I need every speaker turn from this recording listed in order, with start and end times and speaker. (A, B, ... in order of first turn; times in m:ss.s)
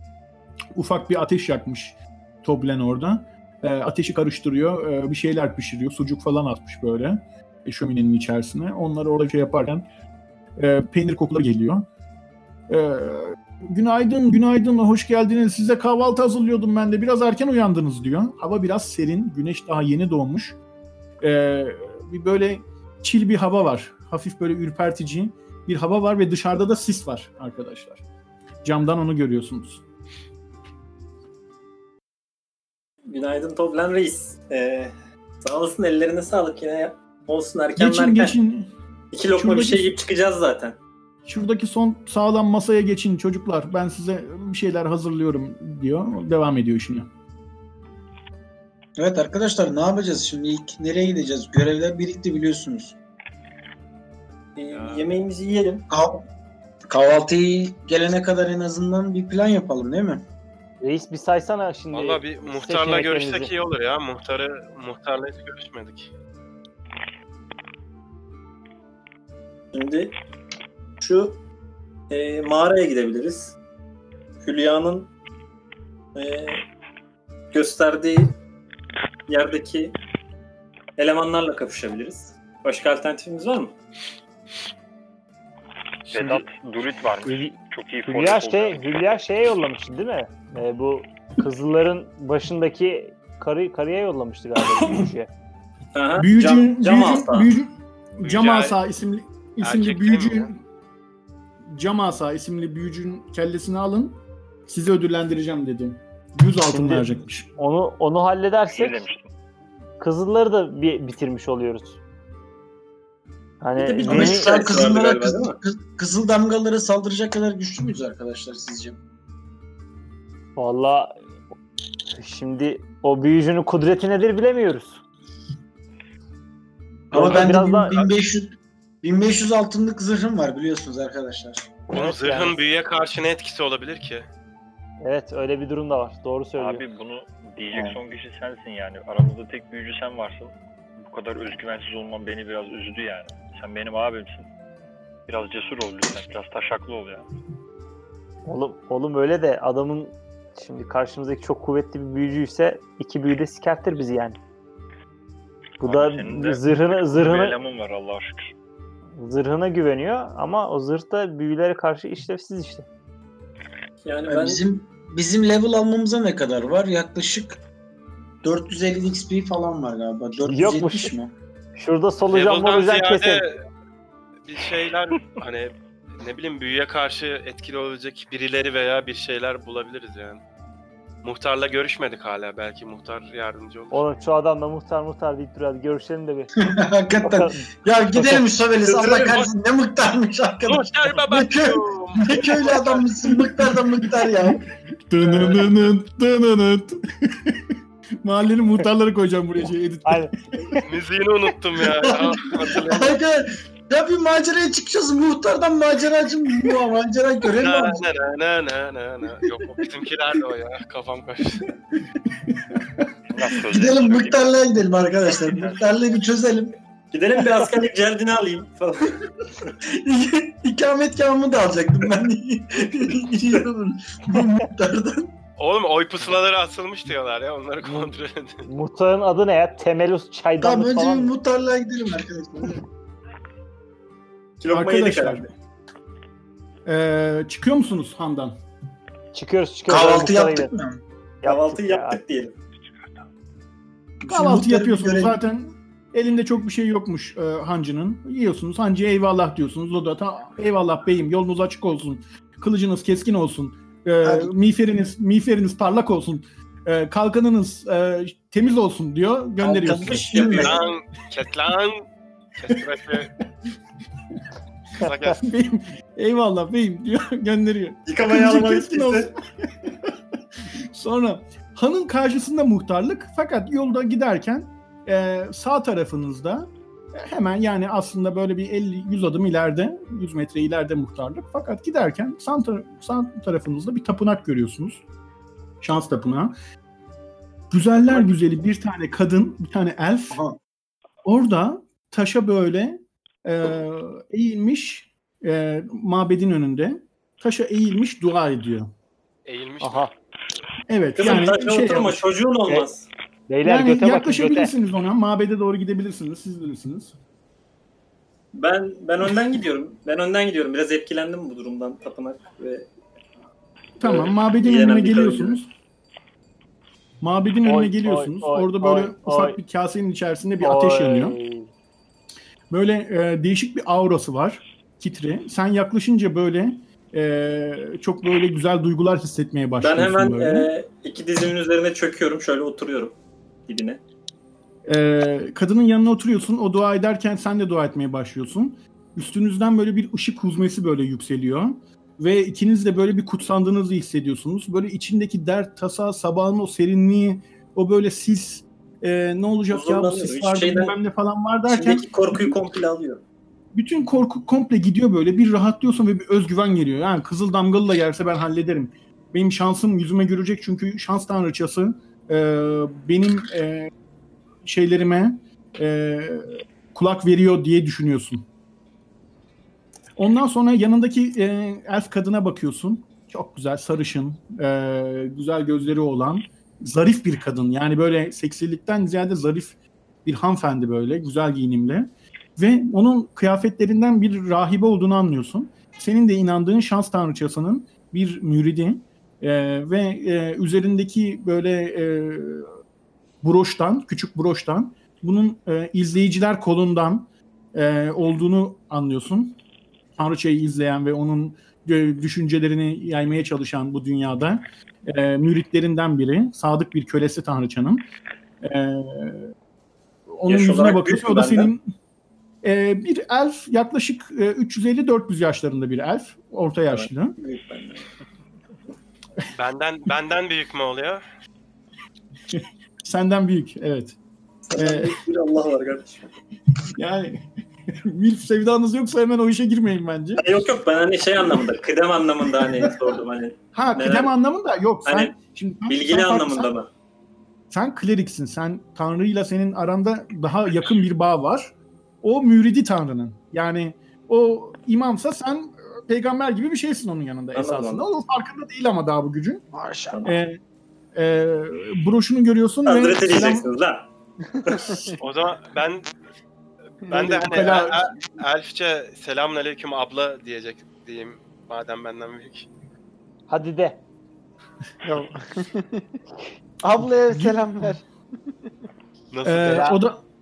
0:00.8-0:09.9 A
0:10.6-0:11.9 A
0:12.7-0:20.6 A
0:21.2-0:28.0 A
0:28.6-0:29.8 A
0:33.1-0:38.4 B
0:37.8-0:38.7 A
0:39.1-0:40.8 B
0:39.3-0:40.0 A
0:41.3-0:47.1 A
0:49.0-0:52.9 C
0:54.6-0:55.9 B
0:54.7-0:55.2 D
0:55.9-0:56.2 C
0:56.9-1:00.2 C
1:00.8-1:03.5 E
1:01.9-1:06.1 D
1:09.7-1:10.2 B
1:11.0-1:11.4 B
1:12.1-1:13.6 B
1:14.4-1:15.1 B
1:16.2-1:16.6 B
1:17.5-1:18.3 B
1:19.3-1:19.9 B
1:21.0-1:23.8 B
1:26.1-1:28.9 F
1:26.1-1:26.4 E
1:27.2-1:35.3 E
1:36.0-1:37.5 B
1:36.2-1:40.5 A
1:38.2-1:38.8 D
1:39.6-1:40.5 D
1:41.6-1:47.5 A
1:46.7-1:49.0 E
1:48.7-1:49.3 F
1:50.0-1:52.0 E
1:53.6-1:54.6 E
1:53.8-1:55.6 B
1:54.0-1:59.0 C
2:00.6-2:01.2 E
2:02.2-2:05.0 E
2:07.1-2:08.0 E
2:07.1-2:08.5 C
2:09.0-2:12.6 C
2:11.9-2:14.2 D
2:15.0-2:16.8 E
2:16.6-2:24.5 F
2:25.3-2:27.3 F
2:28.5-2:34.4 E
2:35.8-2:37.6 E
2:35.8-2:38.5 F
2:39.2-2:42.9 E
2:44.0-2:44.6 B
2:44.3-2:47.6 C
2:48.4-2:51.3 C
2:50.5-2:51.1 E
2:51.8-2:53.4 E
2:52.3-2:53.6 D
2:54.4-3:00.4 D
3:01.2-3:04.0 D
3:03.9-3:06.5 E
3:06.8-3:11.7 C
3:07.2-3:08.4 E
3:08.8-3:09.5 D
3:10.6-3:13.1 D
3:12.3-3:14.6 C
3:15.1-3:20.3 A
3:20.0-3:20.8 E
3:20.8-3:23.2 D
3:22.8-3:23.4 C
3:23.9-3:28.0 C
3:27.6-3:31.7 D
3:33.3-3:34.7 F
3:33.7-3:36.7 C
3:35.5-3:36.0 F
3:37.1-3:39.7 B
3:39.9-3:45.3 C
3:45.6-3:48.6 D
3:47.8-3:48.1 E
3:48.7-3:51.3 E
3:50.6-3:52.8 C
3:54.6-3:55.5 B
3:54.7-3:55.5 A
3:56.9-3:58.6 A
3:59.3-4:00.7 E
3:59.9-4:01.0 C
4:01.4-4:02.2 E
4:01.4-4:02.6 B
4:04.3-4:20.4 A
4:19.6-4:20.8 C
4:20.3-4:20.8 B
4:20.4-4:22.0 D
4:22.6-4:23.3 D
4:25.0-4:25.4 D
4:25.1-4:29.9 A
4:28.1-4:29.3 B
4:30.9-4:45.0 A
4:45.8-4:46.5 A
4:47.7-4:50.4 A
4:51.2-4:58.9 A
4:59.5-5:00.1 D
4:59.8-5:00.1 E
5:00.9-5:02.3 A
5:01.2-5:03.1 B
5:03.5-5:04.7 E
5:03.6-5:07.1 A
5:08.5-5:12.9 B
5:14.0-5:15.7 A
5:14.0-5:15.6 B
5:17.2-5:21.4 A
5:17.6-5:19.6 E
5:20.6-5:21.7 E
5:22.7-5:30.7 A
5:29.8-5:34.0 B
5:34.9-5:52.5 A
5:49.7-5:51.0 B
5:51.7-5:53.2 B
5:53.7-6:03.9 A
6:04.6-6:08.5 A
6:10.2-6:32.7 A
6:33.4-6:39.6 A
6:40.2-6:48.0 A
6:48.6-6:49.5 A
6:50.3-6:51.8 A
6:50.5-6:51.7 B
6:52.6-6:57.4 A
6:56.9-6:58.1 B
6:59.6-7:01.2 D
7:02.5-7:04.2 A
7:04.7-7:06.3 B
7:04.8-7:05.2 A
7:06.9-7:10.5 A
7:10.4-7:14.3 B
7:12.7-7:12.9 A
7:13.7-7:16.7 A
7:15.1-7:15.3 B
7:15.9-7:16.9 B
7:17.7-7:21.7 A
7:22.2-7:29.6 A
7:27.5-7:28.1 B
7:29.7-7:30.2 C
7:30.2-7:30.6 A
7:31.2-7:33.7 A
7:32.9-7:34.1 B
7:34.6-7:35.1 B
7:34.7-7:35.2 C
7:35.2-7:36.1 D
7:37.0-7:42.7 D
7:37.1-7:37.7 C
7:37.3-7:38.0 A
7:43.5-7:44.0 E
7:45.0-7:46.1 C
7:46.8-7:48.0 C
7:47.3-7:47.7 A
7:49.3-7:49.9 D
7:49.4-7:50.2 A
7:49.6-7:50.0 E